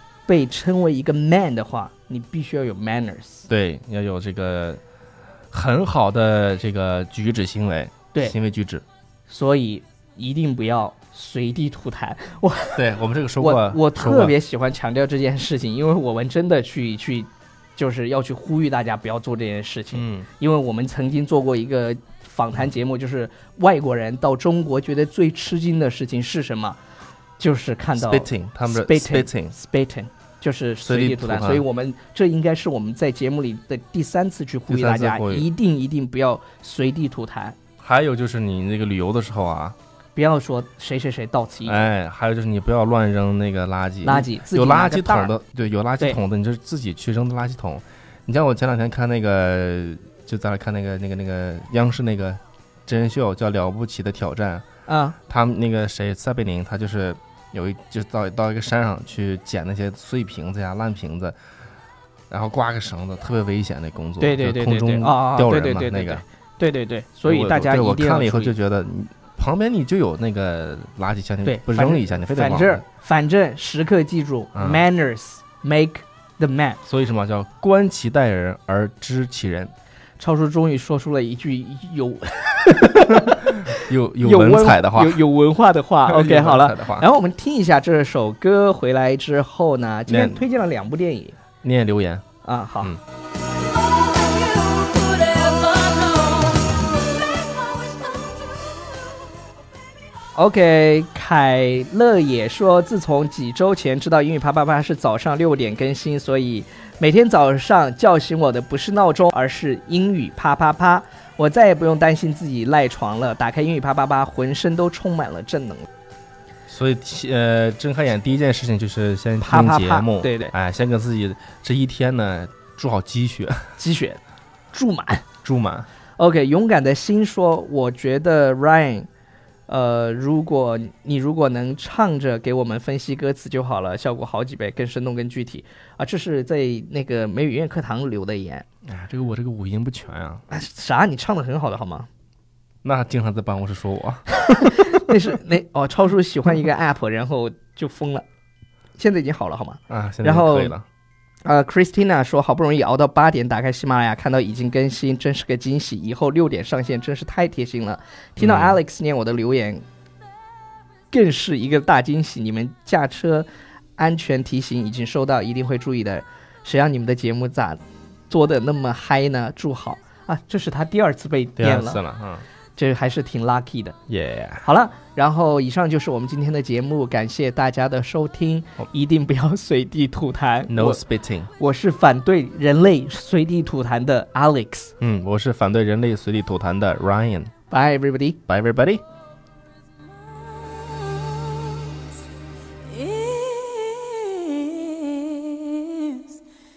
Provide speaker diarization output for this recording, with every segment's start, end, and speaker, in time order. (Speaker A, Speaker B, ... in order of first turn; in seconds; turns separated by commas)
Speaker A: 0.3-3.5, Speaker B: 3.5-4.8, Speaker B: 5.5-8.8, Speaker A: 9.3-12.8, Speaker B: 12.8-14.4, Speaker A: 13.4-26.8, Speaker B: 19.9-20.3, Speaker A: 27.4-37.6, Speaker B: 28.0-29.6, Speaker B: 30.8-31.6, Speaker B: 34.7-35.5, Speaker B: 37.8-39.8, Speaker A: 40.1-41.9, Speaker B: 41.7-54.7, Speaker A: 44.0-45.3, Speaker A: 54.9-55.2, Speaker B: 55.3-61.4, Speaker B: 62.3-66.2, Speaker A: 64.2-68.5, Speaker B: 67.3-72.8, Speaker A: 71.4-76.8, Speaker B: 74.5-74.8, Speaker B: 76.8-79.7, Speaker A: 80.2-91.4, Speaker B: 83.1-85.2, Speaker B: 86.1-87.1, Speaker B: 90.1-90.4, Speaker B: 91.6-92.2, Speaker A: 92.4-92.9, Speaker C: 93.9-98.8, Speaker A: 100.4-115.9, Speaker B: 116.7-123.7, Speaker A: 119.4-120.5, Speaker A: 123.8-124.2, Speaker A: 124.7-125.3, Speaker B: 125.4-125.9, Speaker A: 126.2-129.1, Speaker A: 129.7-138.7, Speaker B: 138.9-140.4, Speaker A: 140.5-142.1, Speaker B: 142.8-144.3, Speaker A: 144.4-148.2, Speaker A: 149.0-150.8, Speaker B: 149.9-150.8, Speaker A: 151.4-159.8, Speaker B: 158.4-158.8, Speaker A: 161.1-172.0, Speaker B: 171.6-172.4, Speaker A: 172.8-174.0, Speaker B: 174.1-174.7, Speaker A: 174.6-181.0, Speaker B: 180.7-181.5, Speaker A: 181.6-184.9, Speaker B: 185.0-187.5, Speaker A: 187.7-188.4, Speaker B: 188.5-189.0, Speaker C: 190.4-192.0, Speaker C: 192.9-196.4